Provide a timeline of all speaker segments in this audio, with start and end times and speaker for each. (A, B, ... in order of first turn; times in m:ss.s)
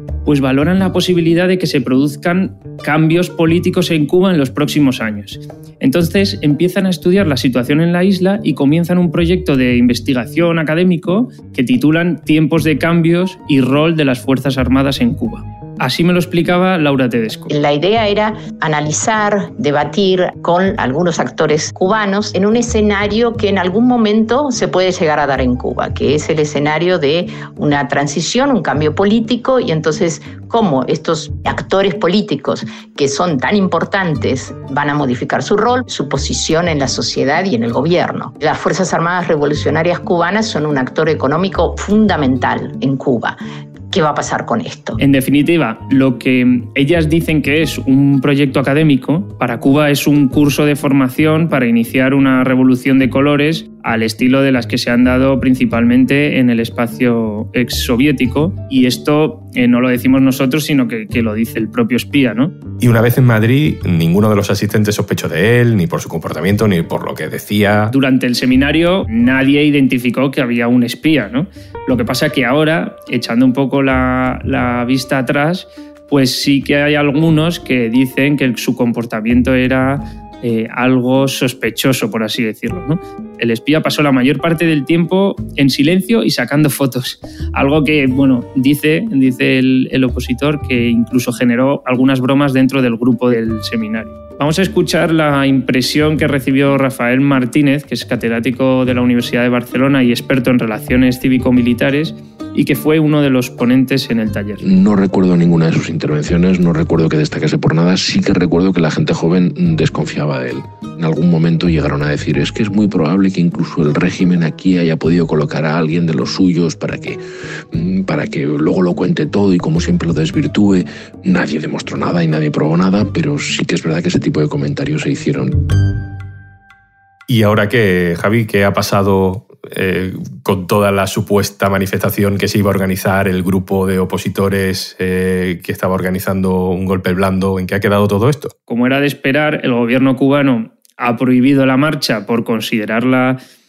0:00.2-0:17.5 A
0:17.5-0:43.4 B
0:43.9-0:45.0 B
0:45.0-1:02.5 A
1:02.8-1:07.9 C
1:07.9-1:44.6 A
1:44.6-1:57.2 D
1:57.7-2:05.6 D
2:07.3-2:18.5 C
2:18.7-2:23.4 A